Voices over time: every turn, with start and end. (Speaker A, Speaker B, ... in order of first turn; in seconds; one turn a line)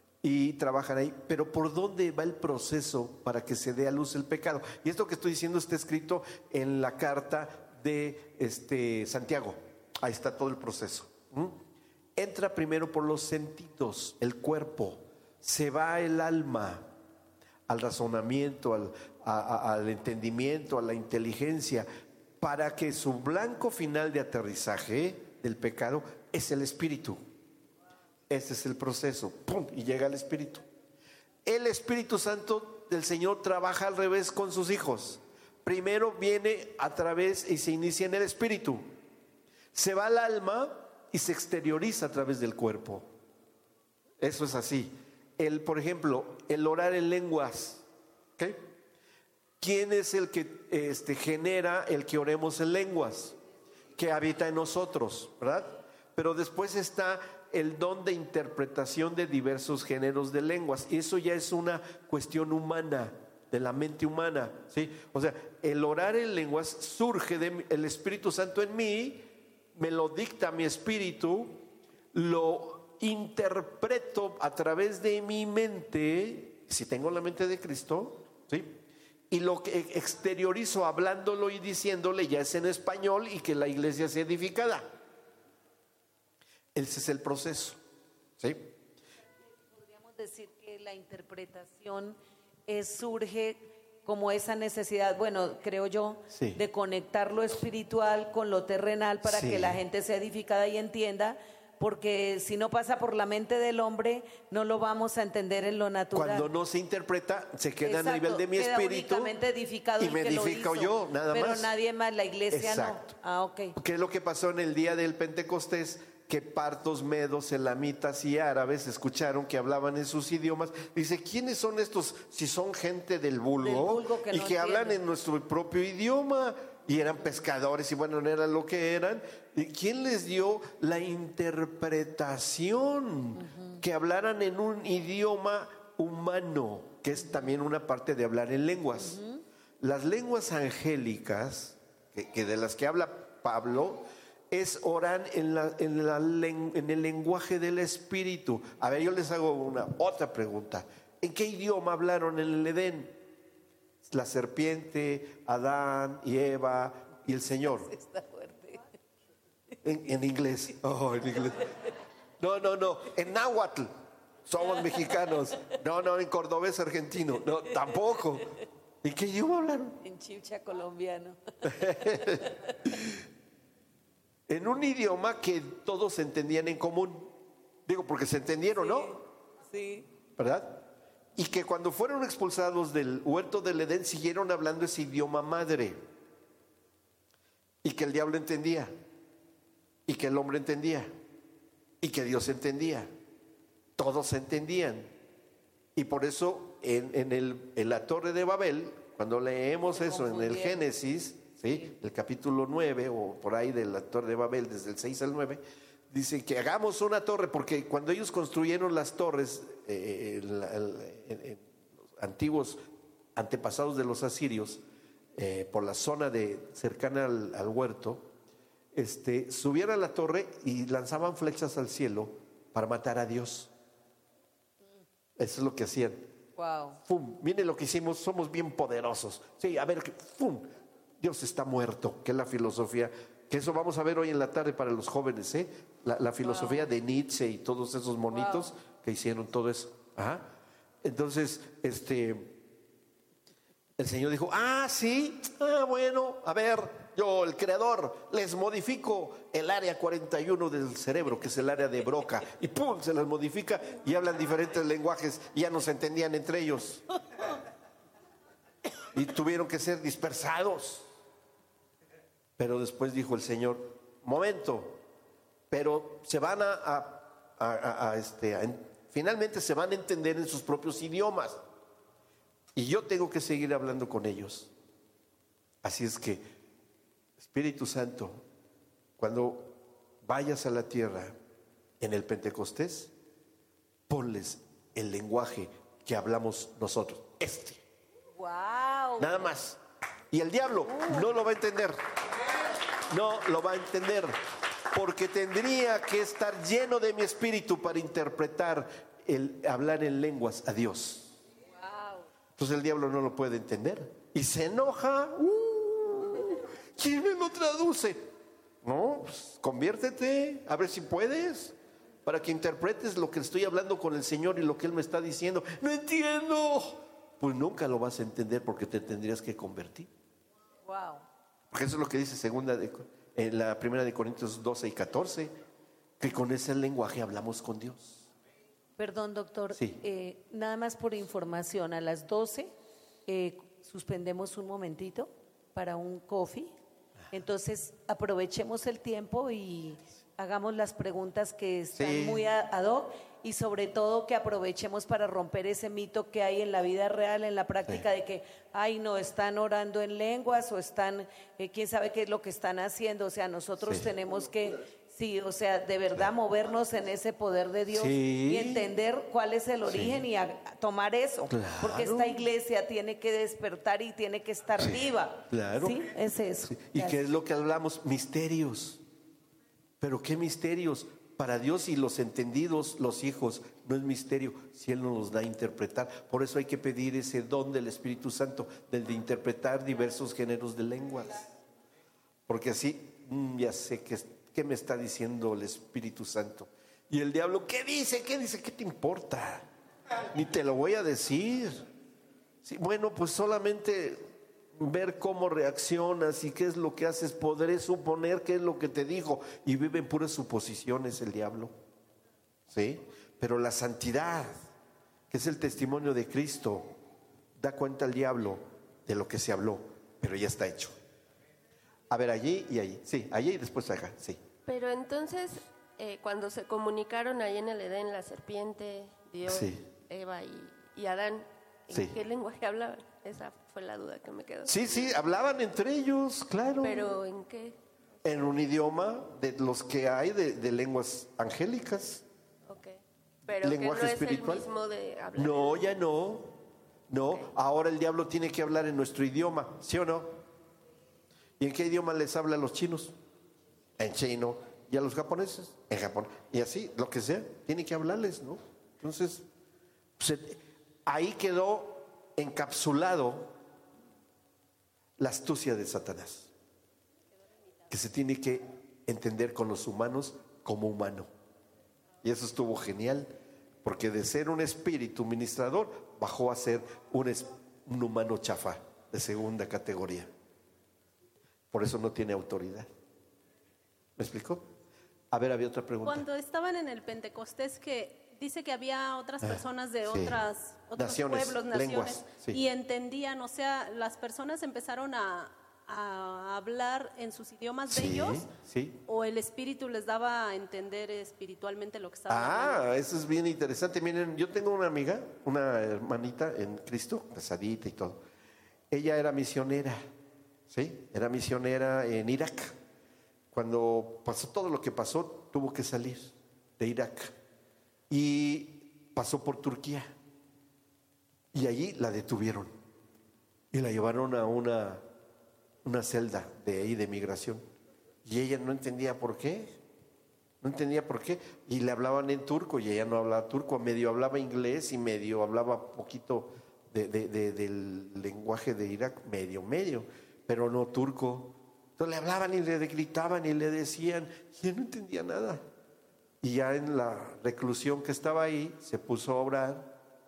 Speaker A: 0.2-11.6
Speaker A: 12.2-16.9
Speaker A: 17.7-21.9
Speaker A: 22.4-27.2
Speaker A: 28.3-30.6
Speaker A: 31.4-38.9
Speaker A: 39.7-43.1
Speaker A: 44.2-47.9
Speaker A: 48.4-48.7
Speaker A: 49.6-53.4
Speaker A: 54.0-85.0
Speaker A: 86.8-87.8
Speaker A: 88.4-88.7
Speaker B: 89.8-106.5
Speaker A: 96.3-96.6
Speaker A: 99.2-99.8
Speaker A: 106.1-109.3
Speaker B: 107.8-113.8
Speaker A: 110.0-111.7
Speaker A: 112.5-113.1
Speaker A: 113.8-139.2
Speaker B: 123.6-125.0
Speaker B: 133.4-133.8
Speaker B: 139.0-139.4
Speaker A: 139.8-153.2
Speaker A: 154.0-157.9
Speaker B: 157.6-158.9
Speaker A: 159.8-161.8
Speaker A: 162.4-163.9
Speaker A: 164.5-170.0
Speaker B: 164.8-165.1
Speaker B: 170.0-172.7
Speaker A: 171.6-173.2
Speaker A: 174.5-177.3
Speaker A: 177.9-179.1
Speaker B: 178.8-180.1
Speaker A: 180.4-186.0
Speaker A: 187.8-188.9
Speaker A: 190.1-191.1
Speaker A: 192.0-193.1
Speaker A: 194.0-195.1
Speaker A: 196.0-212.8
Speaker B: 199.9-200.8
Speaker A: 213.4-214.8
Speaker A: 215.4-218.3
Speaker A: 218.9-223.7
Speaker A: 225.4-226.2
Speaker B: 226.6-227.0
Speaker A: 227.0-240.5
Speaker B: 236.4-236.9
Speaker B: 238.3-238.7
Speaker A: 241.0-242.6
Speaker A: 244.0-257.0
Speaker A: 259.1-261.1
Speaker A: 262.6-265.0
Speaker A: 265.7-271.6
Speaker A: 272.8-274.7
Speaker A: 275.8-276.4
Speaker A: 277.4-278.4
Speaker A: 279.2-281.4
Speaker A: 282.0-283.1
Speaker A: 284.1-287.8
Speaker B: 288.4-289.3
Speaker A: 289.2-289.8
Speaker A: 290.3-292.0
Speaker B: 290.9-291.3
Speaker A: 293.0-294.3
Speaker A: 294.9-301.4
Speaker B: 301.9-302.2
Speaker A: 302.6-308.3
Speaker A: 308.8-320.1
Speaker B: 320.9-321.2
Speaker A: 321.7-325.5
Speaker A: 326.2-328.2
Speaker B: 329.0-332.7
Speaker A: 329.7-330.0
Speaker B: 333.3-336.8
Speaker B: 337.3-367.2
Speaker A: 341.9-342.4
Speaker A: 353.8-354.1
Speaker A: 357.9-358.9
Speaker A: 359.9-360.2
Speaker A: 361.5-362.5
Speaker A: 364.8-366.0
Speaker A: 366.7-369.0
Speaker A: 370.0-381.6
Speaker A: 382.5-389.7
Speaker A: 390.3-391.9
Speaker A: 392.6-401.7
Speaker A: 402.7-404.7
Speaker A: 405.3-406.9
Speaker A: 407.6-411.0
Speaker A: 412.1-414.4
Speaker C: 414.6-425.1
Speaker A: 419.5-419.8
Speaker A: 424.6-427.1
Speaker C: 426.8-427.8
Speaker A: 428.2-432.2
Speaker C: 432.7-436.0
Speaker A: 433.6-434.7
Speaker A: 435.4-436.5
Speaker A: 437.1-440.4
Speaker A: 441.6-443.1
Speaker A: 444.0-449.4
Speaker A: 450.2-453.5
Speaker A: 455.2-456.5
Speaker A: 457.9-461.3
Speaker A: 462.2-463.3
Speaker A: 463.8-470.3
Speaker A: 471.7-472.9
Speaker A: 474.2-474.6
Speaker A: 475.3-476.3
Speaker D: 476.1-488.5
Speaker A: 479.4-480.4
Speaker A: 481.0-482.6
Speaker A: 487.9-489.0
Speaker D: 489.1-492.9
Speaker A: 492.3-498.2
Speaker A: 498.9-500.0
Speaker A: 500.7-502.8
Speaker A: 503.5-507.3
Speaker A: 508.1-510.1
Speaker A: 511.5-512.7
Speaker A: 513.7-515.0
Speaker A: 515.8-517.6
Speaker A: 518.2-519.8
Speaker A: 520.6-535.6
Speaker A: 536.4-539.9